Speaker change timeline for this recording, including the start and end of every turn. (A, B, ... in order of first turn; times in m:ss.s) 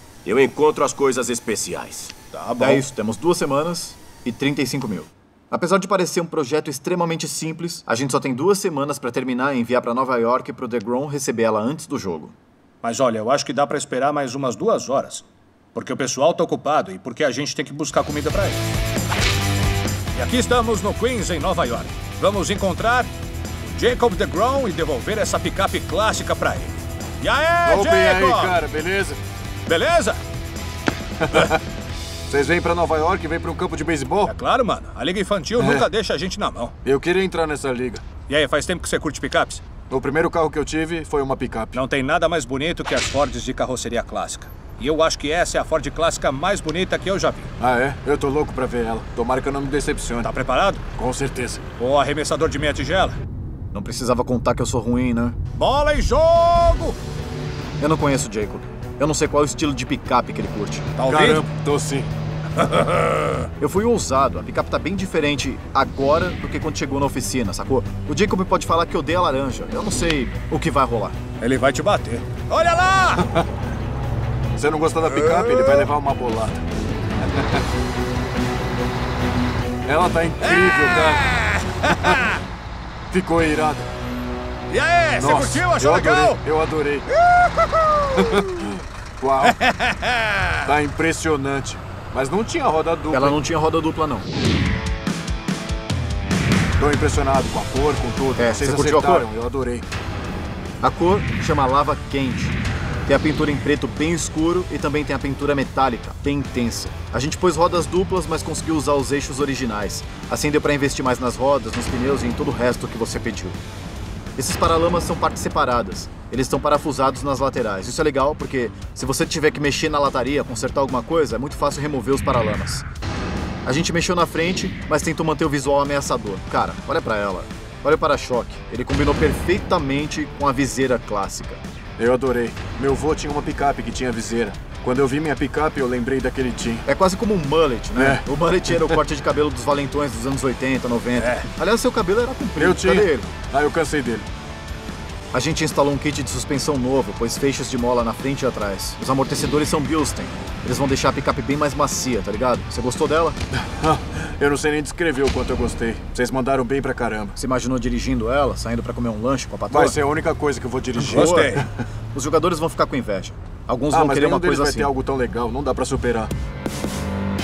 0:00.2-0:02.8 A
0:02.6-0:12.4 B
0:12.8-0:18.6 C
0:20.2-0:23.1 C
0:23.6-0:28.6 C
0:27.6-0:29.2 D
0:29.7-0:30.2 C
0:32.3-0:34.3 D
0:34.2-0:36.8 C
0:35.6-0:35.9 D
0:36.8-0:38.0 D
0:38.3-0:39.6 C
0:39.9-0:41.8 D
0:41.7-0:47.5 C
0:47.6-0:50.3 D
0:50.2-0:50.8 C
0:51.0-0:51.6 D
0:51.8-0:53.2 C
0:53.7-0:55.4 B
0:55.6-0:57.0 C
0:57.8-1:00.9 B
1:01.0-1:01.5 C
1:01.1-1:02.1 D
1:02.6-1:03.4 C
1:03.6-1:11.2 B
1:11.4-1:13.3 C
1:14.6-1:16.6 D
1:15.0-1:15.9 C
1:17.2-1:17.6 D
1:19.8-1:21.3 D
1:20.4-1:22.4 C
1:23.1-1:23.9 D
1:24.7-1:26.4 C
1:25.2-1:27.1 D
1:27.2-1:28.7 C
1:28.2-1:29.6 D
1:29.4-1:30.7 C
1:30.7-1:33.4 D
1:33.1-1:34.3 B
1:36.8-1:39.8 D
1:38.4-1:39.3 B
1:40.8-1:42.6 B
1:43.1-1:53.6 B
1:54.4-2:02.9 B
2:03.6-2:11.6 B
2:12.0-2:16.8 D
2:16.9-2:23.3 B
2:18.0-2:18.2 D
2:21.2-2:21.5 C
2:22.6-2:24.3 D
2:25.3-2:33.4 B
2:33.6-2:37.3 D
2:37.4-2:40.0 B
2:39.7-2:41.6 D
2:41.0-2:41.6 B
2:41.0-2:41.6 C
2:42.1-2:44.9 B
2:43.9-2:46.3 D